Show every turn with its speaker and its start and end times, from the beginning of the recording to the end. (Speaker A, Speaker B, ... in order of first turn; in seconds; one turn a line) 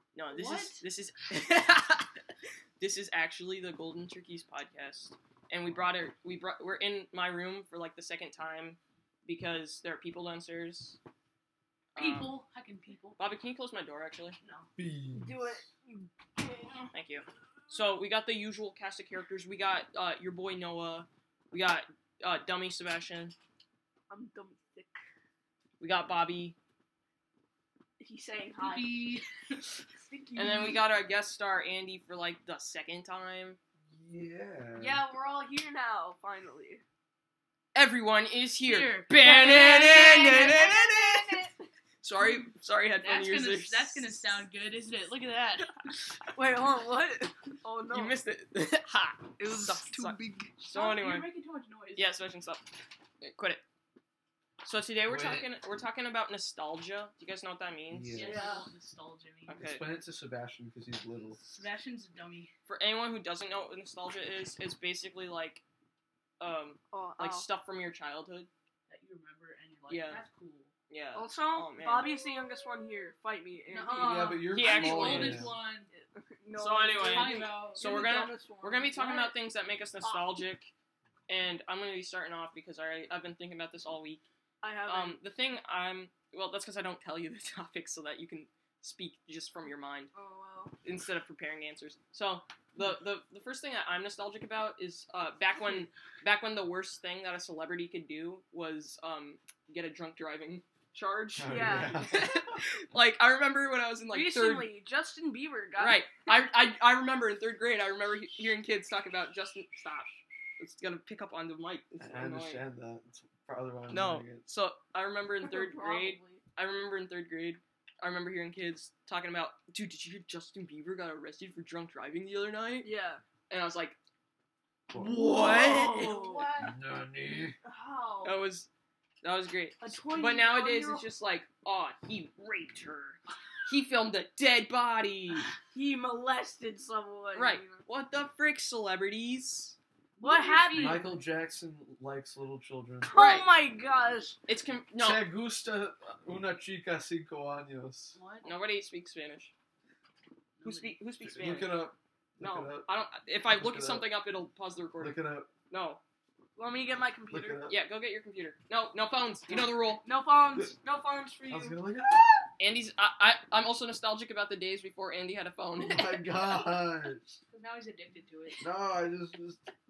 Speaker A: 0.1-2.1
Speaker B: 0.3-0.8
Speaker A: 2.8-11.0
Speaker A: 11.9-12.4
Speaker C: 11.9-13.2
Speaker A: 13.2-14.4
Speaker B: 14.4-16.9
Speaker D: 14.8-15.6
Speaker A: 16.9-23.3
Speaker B: 24.1-25.0
Speaker A: 25.8-26.6
Speaker B: 28.0-29.1
Speaker C: 28.6-29.3
Speaker B: 29.9-30.8
Speaker A: 30.4-33.6
Speaker D: 33.9-35.0
Speaker B: 34.8-36.8
Speaker A: 37.8-41.5
Speaker C: 38.6-40.6
Speaker B: 39.3-41.6
Speaker A: 42.0-44.2
Speaker C: 43.0-45.8
Speaker B: 46.3-48.1
Speaker A: 47.9-51.3
Speaker B: 49.4-52.0
Speaker C: 51.0-51.3
Speaker A: 52.0-52.6
Speaker A: 53.2-53.6
Speaker A: 54.6-58.4
Speaker D: 55.1-55.5
Speaker D: 57.9-58.4
Speaker C: 58.1-59.6
Speaker B: 58.2-58.7
Speaker A: 59.5-59.9
Speaker D: 59.6-61.4
Speaker C: 61.4-62.5
Speaker A: 62.7-65.6
Speaker A: 66.4-68.5
Speaker B: 66.9-67.5
Speaker C: 68.9-70.7
Speaker A: 69.9-70.2
Speaker A: 70.9-72.1
Speaker B: 71.1-74.4
Speaker C: 73.7-75.9
Speaker D: 74.0-75.6
Speaker A: 74.5-75.5
Speaker B: 75.9-79.4
Speaker A: 76.6-80.7
Speaker C: 76.9-77.8
Speaker B: 80.0-80.3
Speaker A: 81.3-84.2
Speaker B: 84.6-85.2
Speaker A: 84.9-90.1
Speaker B: 90.1-90.8
Speaker A: 90.8-104.7
Speaker D: 101.4-102.4
Speaker B: 101.5-102.2
Speaker B: 104.1-106.1
Speaker A: 105.8-112.6
Speaker D: 112.0-114.4
Speaker A: 113.9-122.9
Speaker B: 115.4-116.4
Speaker B: 122.8-123.2
Speaker A: 123.5-124.0
Speaker D: 124.9-127.6
Speaker B: 125.0-128.4
Speaker A: 125.6-126.4
Speaker C: 126.1-126.5
Speaker A: 128.2-128.7
Speaker A: 129.2-135.5
Speaker B: 129.8-131.1
Speaker B: 135.7-137.8
Speaker A: 137.3-139.8
Speaker C: 140.2-141.2
Speaker B: 140.2-141.1
Speaker D: 140.8-143.2
Speaker B: 143.1-144.4
Speaker A: 143.1-143.5
Speaker A: 144.5-145.2
Speaker D: 145.0-148.2
Speaker C: 148.2-148.5
Speaker A: 148.4-149.5
Speaker C: 150.6-151.0
Speaker A: 150.7-151.8
Speaker D: 151.2-152.9
Speaker A: 152.4-156.0
Speaker D: 153.5-154.1
Speaker D: 155.0-155.5
Speaker B: 156.6-157.7
Speaker D: 157.3-157.8
Speaker A: 157.7-160.0
Speaker B: 160.0-161.8
Speaker D: 161.5-162.5
Speaker A: 162.6-166.2
Speaker D: 165.8-167.4
Speaker C: 167.5-168.6
Speaker D: 168.6-169.6